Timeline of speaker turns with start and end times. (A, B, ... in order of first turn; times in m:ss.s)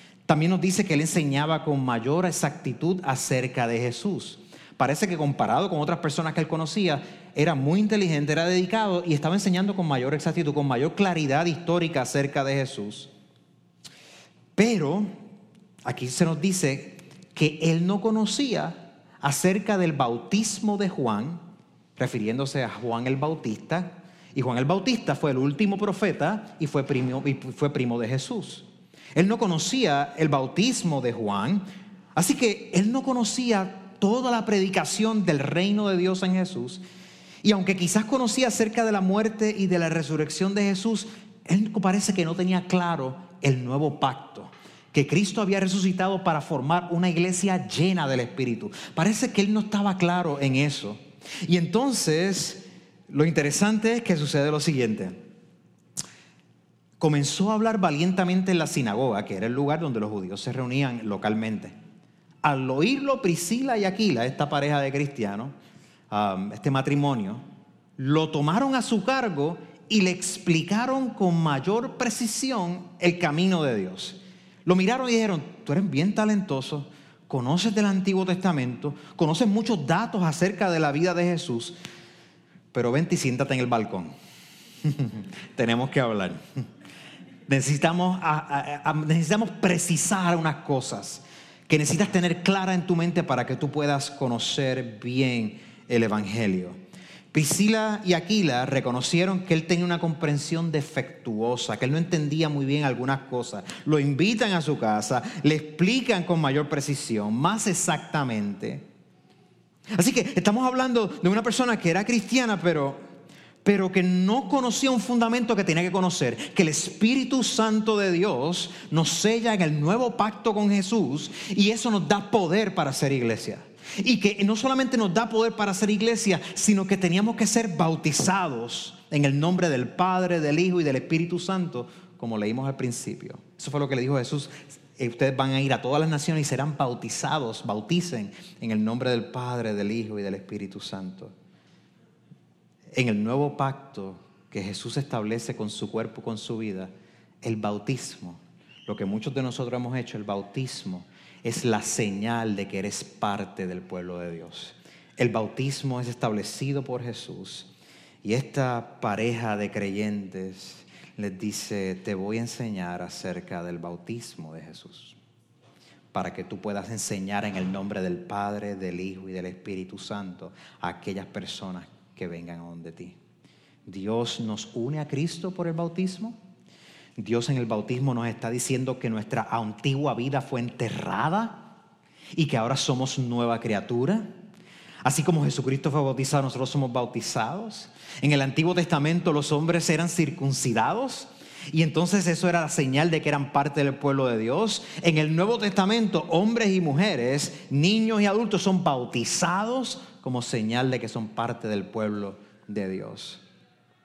0:00.2-0:13.1 A
0:14.5-0:15.1 A
0:15.8-0:21.4 A
0:22.0-0:31.6 A
0:32.1-0:36.8 A
0:37.4-0:55.2 A
0:57.0-1:01.7 A
1:02.4-1:05.5 A
1:06.1-1:07.4 A
1:08.0-1:21.8 A
1:22.7-1:24.1 A
1:24.8-1:26.4 A
1:27.5-1:36.8 A
1:37.3-1:48.8 A
1:50.0-1:53.0 A
1:53.6-2:21.3 A
2:22.9-2:26.9 A
2:27.4-2:37.7 A
2:38.2-2:45.2 A
2:46.1-2:53.2 A
2:53.8-2:56.4 A
2:57.2-3:01.7 A
3:02.3-3:04.3 A
3:05.0-3:23.4 A